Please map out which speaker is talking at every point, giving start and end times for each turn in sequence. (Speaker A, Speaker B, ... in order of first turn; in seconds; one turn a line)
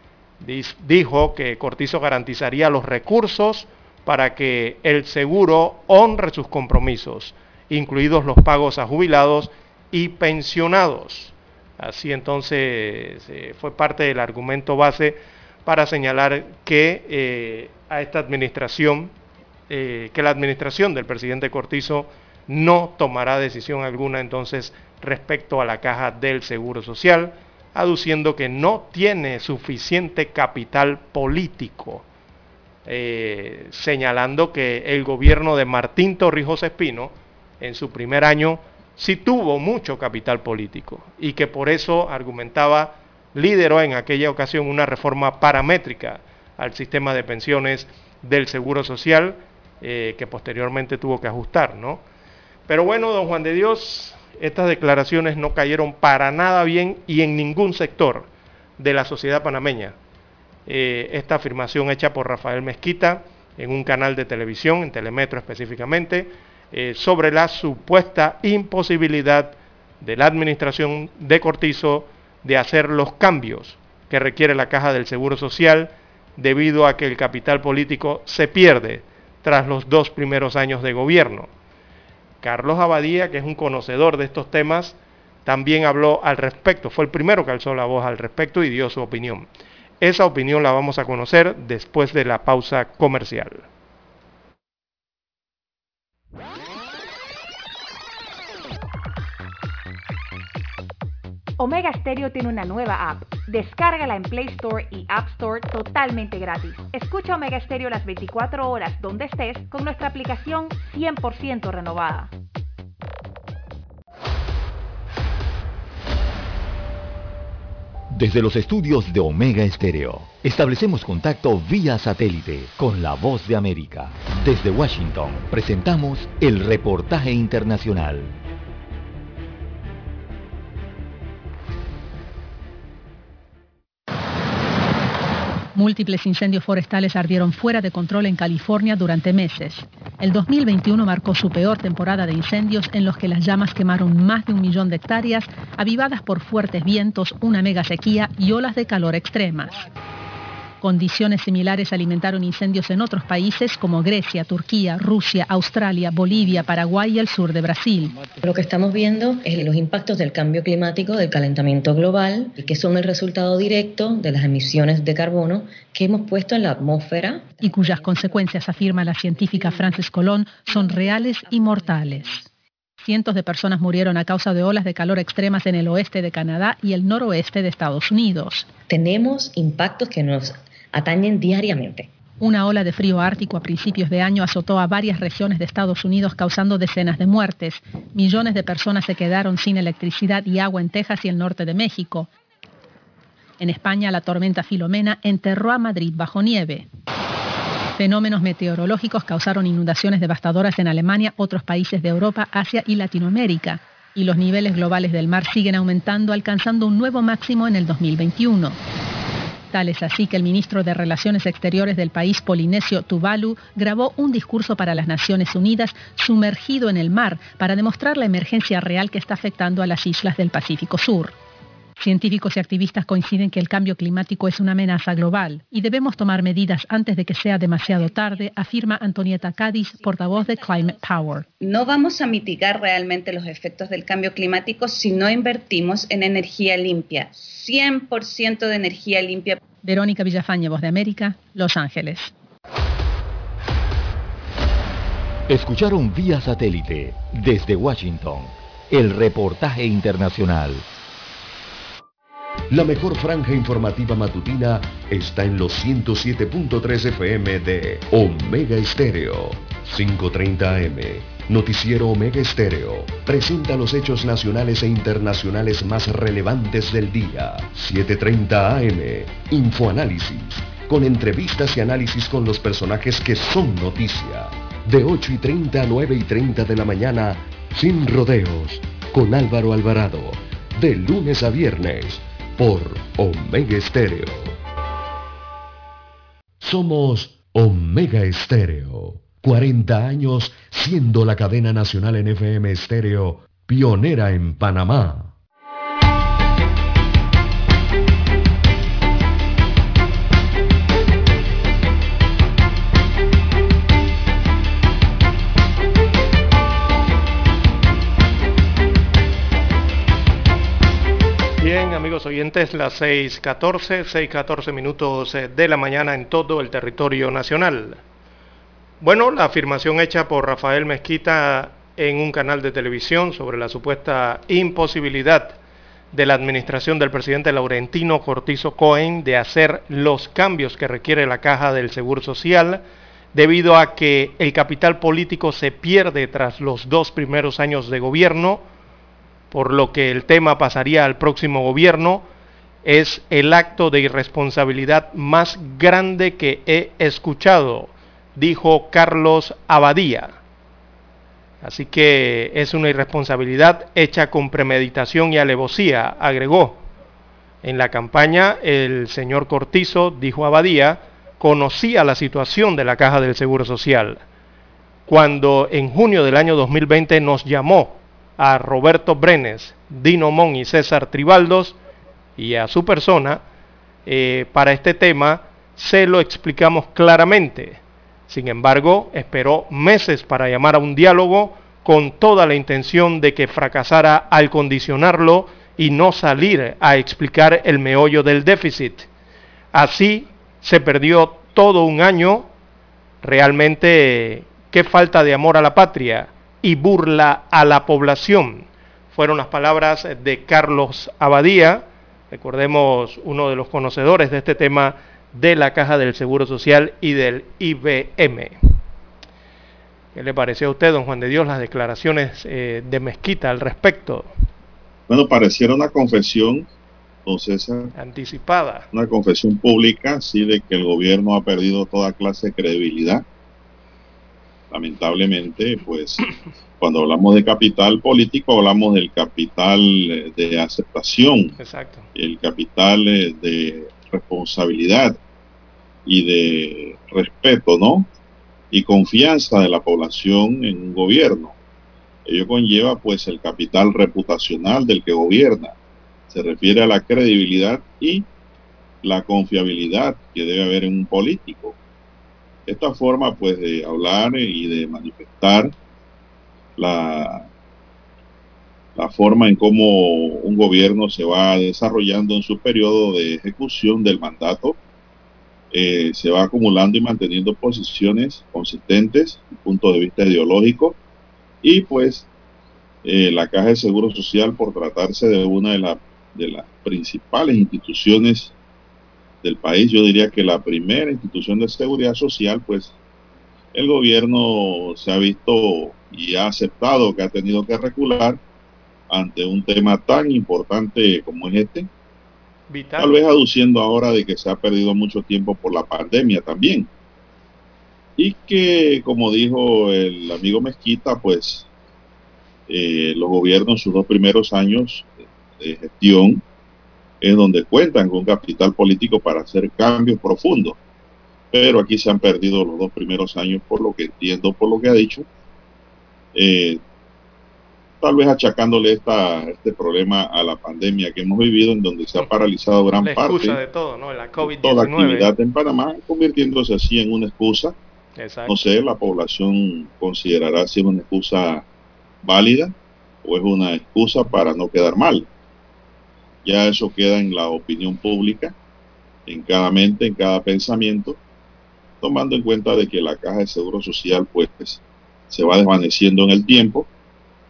Speaker A: 0.4-19.1
Speaker A: 19.7-32.0
Speaker A: 32.9-52.0
Speaker A: 52.7-60.0
Speaker A: 60.6-81.5
Speaker A: 82.4-89.5
Speaker A: 90.0-93.6
Speaker B: 101.6-112.3
Speaker C: 118.1-128.3
Speaker D: 135.7-149.8
Speaker D: 150.8-158.2
Speaker E: 158.4-167.6
Speaker D: 167.6-172.4
Speaker D: 173.0-178.7
Speaker E: 178.9-182.1
Speaker D: 182.4-192.3
Speaker D: 193.6-196.9
Speaker D: 198.0-208.8
Speaker D: 209.7-221.3
Speaker D: 222.0-231.4
Speaker F: 231.6-239.6
Speaker D: 239.8-242.3
Speaker C: 245.5-250.8
Speaker G: 252.7-284.6
Speaker G: 286.6-295.3
Speaker A: 311.6-318.0
Speaker A: 319.0-325.6
Speaker A: 326.1-332.8
Speaker A: 333.3-338.6
Speaker A: 339.5-342.2
Speaker A: 342.8-350.4
Speaker A: 351.6-356.8
Speaker A: 357.6-364.2
Speaker A: 365.1-371.8
Speaker A: 372.4-373.4
Speaker A: 374.1-389.1
Speaker A: 389.7-392.5
Speaker A: 393.2-408.6
Speaker A: 410.1-414.3
Speaker H: 415.1-416.6
Speaker H: 417.2-417.9
Speaker A: 417.9-418.9
Speaker H: 418.9-423.2
Speaker H: 424.7-426.2
Speaker H: 426.8-431.5
Speaker A: 431.6-432.1
Speaker H: 432.1-435.2
Speaker H: 436.1-438.1
Speaker H: 438.7-441.5
Speaker H: 442.2-445.7
Speaker H: 446.3-448.2
Speaker H: 449.0-451.8
Speaker H: 452.7-455.7
Speaker H: 456.8-457.5
Speaker H: 458.9-464.8
Speaker H: 465.7-471.0
Speaker H: 471.6-472.2
Speaker H: 473.0-478.5
Speaker H: 479.4-482.9
Speaker H: 483.7-488.4
Speaker H: 489.1-491.9
Speaker A: 492.7-493.2
Speaker H: 493.0-496.9
Speaker H: 498.2-501.7
Speaker H: 502.7-506.4
Speaker H: 507.2-510.8
Speaker H: 511.5-515.3
Speaker H: 516.3-516.8
Speaker H: 518.0-523.6
Speaker A: 523.0-525.3
Speaker H: 524.4-527.7
Speaker A: 528.2-528.6
Speaker H: 528.5-531.6
Speaker H: 532.2-532.7
Speaker H: 533.2-535.3
Speaker H: 536.4-538.5
Speaker H: 539.2-541.2
Speaker H: 542.0-546.9